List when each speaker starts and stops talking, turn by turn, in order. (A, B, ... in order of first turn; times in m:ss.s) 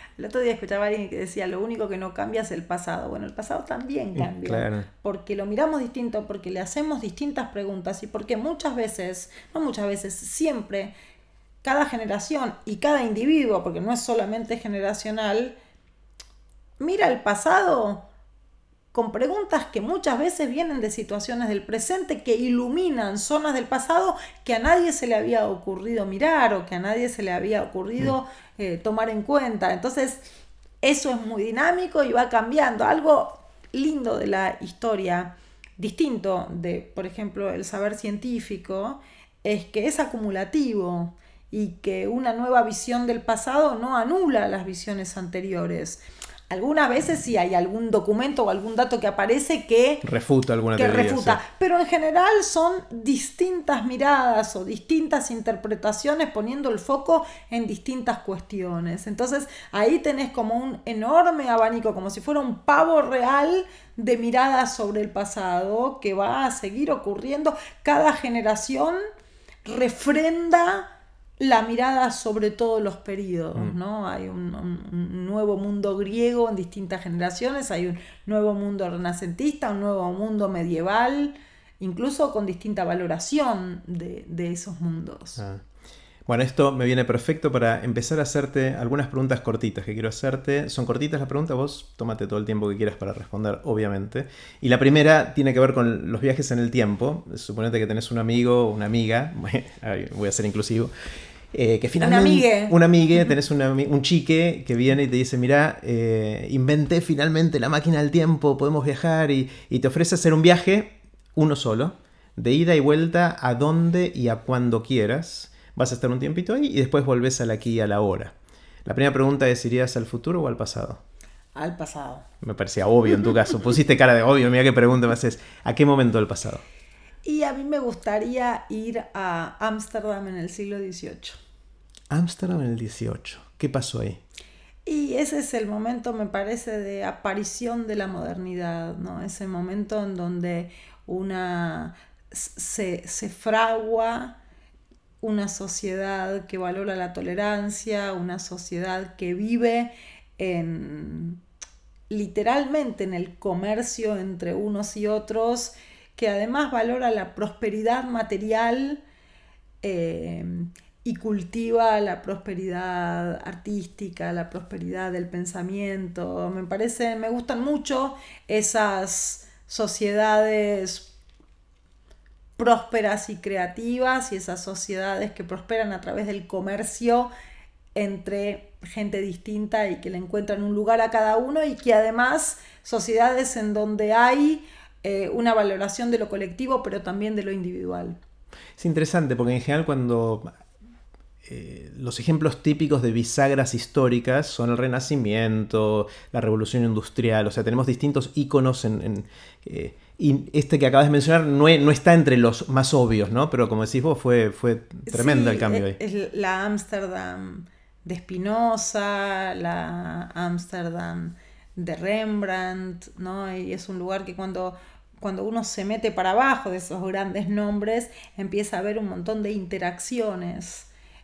0:00.2-0:10.9 A
0:04.2-0:04.9 B
0:11.6-0:15.6 A
0:16.8-0:18.1 A
0:18.9-0:30.2 A
0:30.8-0:50.0 A
0:50.0-0:51.4 B
0:50.8-1:09.0 A
1:09.6-1:25.4 A
1:25.4-1:25.6 B
1:26.3-1:40.9 B
1:41.5-2:01.0 B
1:42.0-1:42.8 A
2:01.6-2:02.3 A
2:02.4-2:06.6 B
2:07.2-2:11.4 A
2:12.1-2:14.2 B
2:14.9-2:24.4 A
2:25.2-2:31.4 A
2:32.1-2:39.0 A
2:39.8-2:51.1 A
2:52.6-2:57.3 A
2:58.0-3:08.2 A
3:08.8-3:10.5 B
3:11.4-3:26.0 B
3:25.1-3:40.9 A